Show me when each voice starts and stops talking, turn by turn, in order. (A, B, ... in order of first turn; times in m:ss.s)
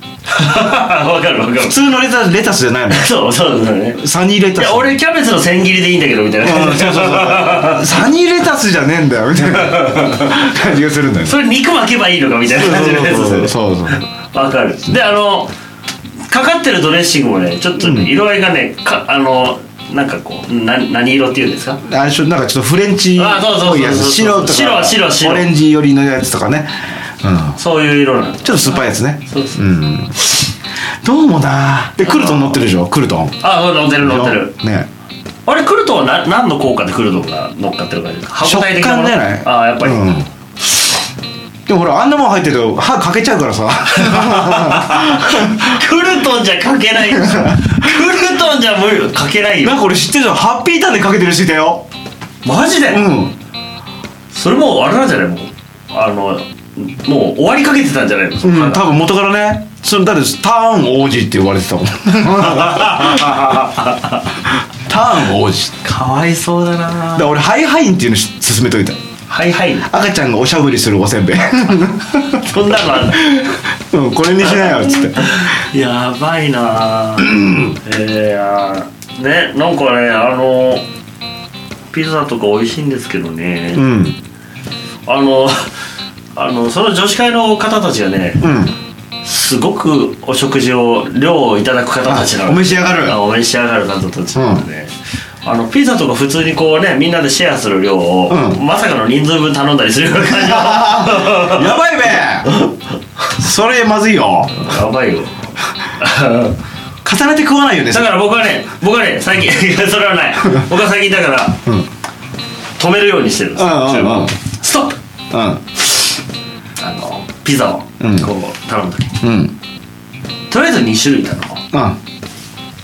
0:00.3-0:01.8 A
0:01.6-0:03.1 B
0:02.9-0:04.0 A
0:03.9-0:04.9 B
0:04.5-0:08.0 A
0:06.4-0:11.4 B
0:09.5-0:10.4 A
0:11.2-0:15.5 A
0:12.5-0:14.0 B
0:16.3-0:21.8 A
0:17.8-0:18.2 B
0:21.8-0:27.6 B
0:23.2-0:25.5 A
0:27.6-0:29.6 A
0:28.4-0:30.5 B
0:31.0-0:33.5 B
0:32.0-0:32.7 A
0:33.4-0:34.5 A
0:34.0-0:34.9 B
0:35.4-0:40.1 A
0:38.4-0:40.3 B
0:41.7-0:45.8 B
0:43.9-0:49.8 A
0:47.2-0:47.8 B
0:49.6-0:51.8 B
0:52.4-0:53.1 A
0:52.9-0:53.4 B
0:54.3-0:58.9 A
0:58.4-1:03.6 B
1:02.5-1:04.2 A
1:04.9-1:05.8 B
1:05.8-1:07.3 A
1:07.1-1:09.0 B
1:09.3-1:09.9 A
1:09.9-1:15.3 B
1:12.2-1:13.4 A
1:14.4-1:20.8 A
1:17.2-1:17.7 B
1:21.9-1:23.8 A
1:23.7-1:24.2 B
1:25.0-1:25.7 A
1:26.3-1:28.4 A
1:28.4-1:28.8 B
1:29.2-1:41.8 A
1:32.0-1:33.2 B
1:34.3-1:34.6 B
1:38.3-1:38.6 B
1:40.2-1:42.5 B
1:43.3-1:44.6 B
1:44.5-1:46.6 A
1:47.0-1:48.1 B
1:47.9-1:51.6 A
1:52.8-1:55.0 A
1:53.5-1:54.4 B
1:55.3-1:55.6 B
1:56.8-1:59.1 A
1:58.0-1:58.3 B
1:59.2-1:59.6 B
2:00.5-2:01.6 A
2:01.7-2:02.0 B